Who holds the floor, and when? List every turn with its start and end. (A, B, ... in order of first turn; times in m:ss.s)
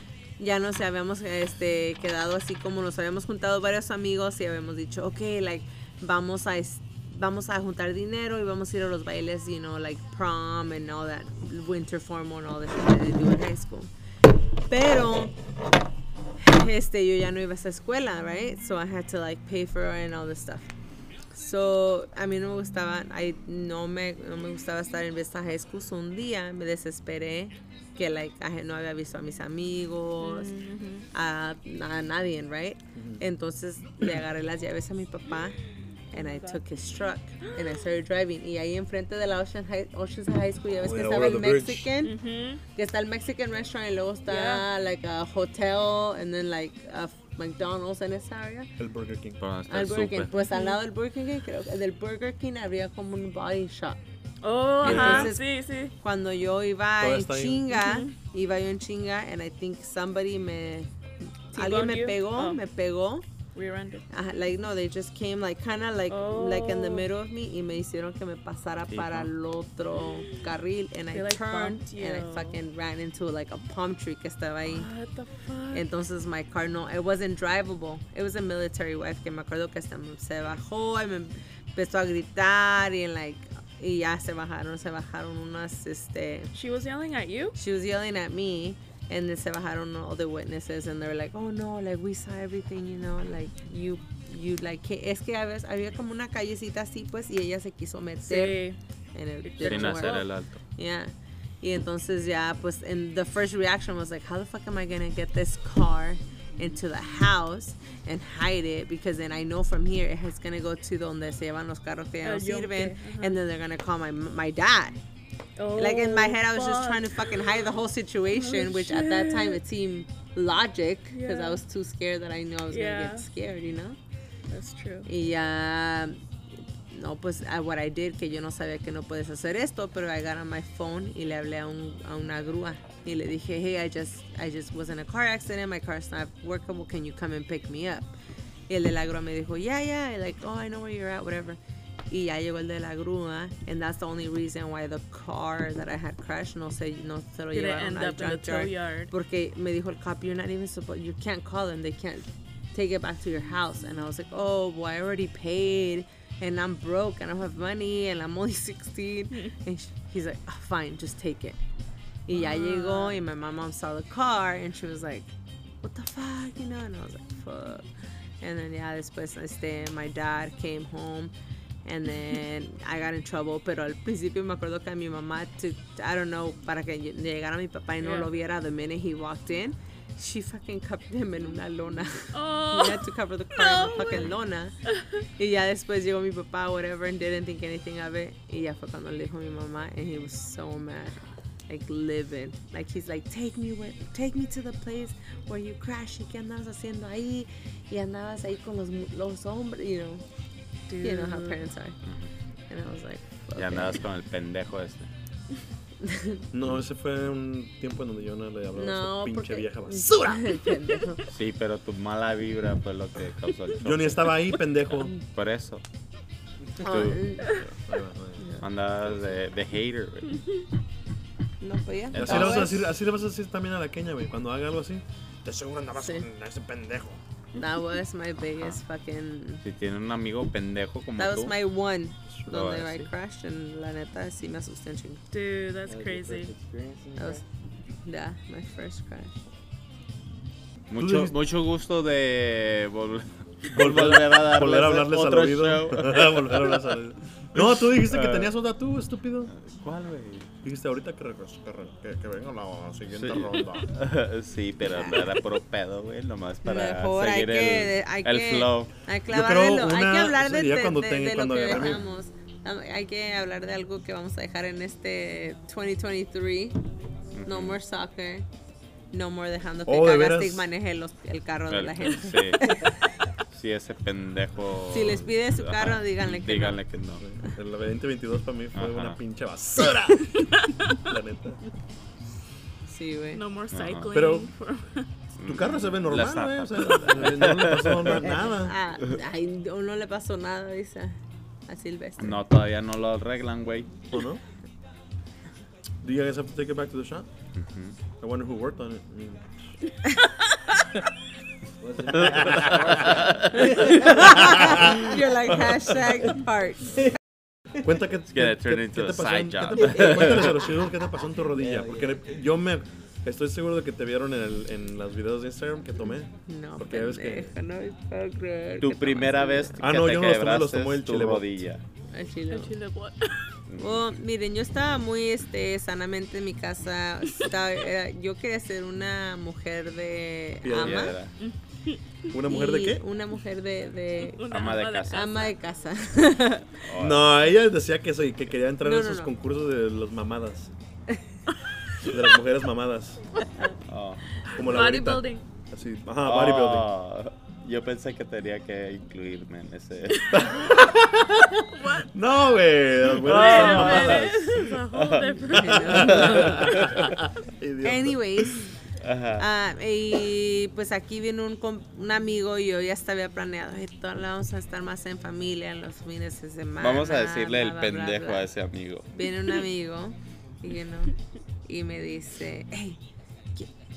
0:00.4-0:13.9 A
0:14.7-0:15.4 A
0:16.4-0:20.7 A
0:21.3-0:30.5 A
0:30.2-0:31.1 B
0:31.1-0:35.6 A
0:32.9-0:33.2 C
0:36.1-0:42.2 A
0:36.1-0:36.6 B
0:40.8-0:41.9 C
0:42.0-0:42.6 B
0:42.7-0:48.7 A
0:44.3-0:44.6 B
0:48.8-0:49.4 C
0:49.4-0:50.3 D
0:49.7-0:54.0 A
0:50.4-0:50.8 B
0:54.4-0:55.9 B
0:54.8-0:55.4 A
0:54.8-0:55.3 C
0:54.9-0:55.2 D
0:56.0-1:00.9 A
0:57.0-0:57.7 C
0:57.7-0:58.1 B
1:01.5-1:03.2 A
1:01.5-1:02.6 B
1:03.5-1:04.0 B
1:04.1-1:14.9 A
1:06.1-1:07.1 B
1:08.9-1:09.3 D
1:11.1-1:12.6 B
1:14.7-1:15.8 B
1:15.7-1:26.5 A
1:26.5-1:27.6 B
1:27.6-1:55.0 A
1:38.3-1:38.8 B
1:39.4-1:40.3 B
1:39.6-1:40.6 D
1:52.2-1:53.4 B
1:55.6-1:57.6 B
1:55.8-2:04.0 A
1:58.3-1:59.6 B
2:01.1-2:01.6 B
2:02.7-2:03.3 B
2:04.5-2:05.1 B
2:05.0-2:06.2 A
2:06.9-2:18.1 A
2:18.7-2:41.6 A
2:27.5-2:29.1 B
2:42.2-2:47.8 A
2:42.3-2:43.2 B
2:48.4-2:51.3 A
2:51.8-3:04.7 A
2:58.0-2:58.3 B
3:02.3-3:04.2 B
3:05.4-3:20.2 A
3:20.9-3:21.6 B
3:21.0-3:22.0 A
3:22.0-3:22.3 D
3:22.7-3:24.0 A
3:23.6-3:25.1 D
3:26.0-3:26.4 A
3:26.5-3:30.6 C
3:28.8-3:31.2 A
3:31.2-3:34.4 D
3:33.8-3:35.1 C
3:35.1-3:35.8 D
3:36.8-3:37.2 D
3:36.8-3:37.6 A
3:37.6-3:39.4 C
3:38.4-3:38.6 A
3:38.6-3:40.4 D
3:41.6-3:42.9 A
3:42.1-3:42.8 D
3:42.1-3:47.2 C
3:46.0-3:46.2 A
3:47.5-3:49.6 A
3:49.6-3:51.5 D
3:51.2-3:55.2 A
3:52.5-3:53.1 D
3:55.3-3:56.5 B
3:55.8-3:57.4 E
3:57.2-3:57.4 A
3:58.0-3:59.4 A
4:00.9-4:06.8 D
4:01.0-4:01.4 C
4:03.7-4:09.5 C
4:07.6-4:08.5 D
4:09.5-4:10.5 D
4:10.6-4:13.9 C
4:13.1-4:18.9 D
4:14.9-4:15.2 A
4:16.6-4:26.8 A
4:19.3-4:22.0 C
4:27.3-4:27.8 D
4:27.4-4:28.5 A
4:29.1-4:33.0 A
4:29.8-4:30.7 C
4:31.7-4:32.8 D
4:33.5-4:37.2 D
4:34.9-4:36.8 A
4:37.2-4:40.4 C
4:38.8-4:39.2 D
4:41.0-4:41.6 C
4:42.9-4:43.4 A
4:43.3-4:45.1 B
4:43.7-4:44.2 D
4:44.1-4:44.5 C
4:45.4-4:48.4 D
4:45.4-4:48.8 C
4:48.4-4:51.2 A
4:51.7-4:52.4 A
4:52.2-4:54.1 D
4:54.1-4:54.4 C
4:56.0-4:57.3 C
4:57.5-4:58.0 D
4:58.2-4:59.6 C
5:01.8-5:04.3 E
5:02.2-5:02.9 C
5:02.2-5:03.8 D
5:03.5-5:07.1 A
5:04.4-5:05.0 C
5:07.8-5:17.5 C
5:08.3-5:10.7 D
5:11.5-5:12.3 E
5:16.5-5:19.8 A
5:18.8-5:21.8 D
5:19.8-5:21.6 C
5:22.1-5:22.7 A
5:22.5-5:23.5 B
5:23.7-5:24.0 D
5:23.8-5:31.2 A
5:30.6-5:31.2 C
5:30.7-5:31.3 D
5:31.4-5:32.0 B
5:32.3-5:33.0 C
5:32.4-5:36.7 A
5:34.2-5:35.5 B
5:34.5-5:35.4 D
5:36.8-5:37.3 D
5:37.0-5:40.7 C
5:38.8-5:39.3 A
5:42.0-5:43.2 C
5:43.8-5:44.2 D
5:44.5-5:46.9 C
5:44.5-5:45.4 B
5:46.2-5:50.5 D
5:50.2-5:50.4 B
5:50.3-5:54.7 C
5:51.7-5:52.0 B
5:53.2-5:57.1 D
5:53.2-5:56.8 B
5:55.5-5:56.8 A
5:55.7-5:58.2 C
5:57.8-5:58.7 A
5:59.0-5:59.4 D
5:59.4-6:08.4 A
6:06.8-6:09.1 D
6:09.1-6:13.0 A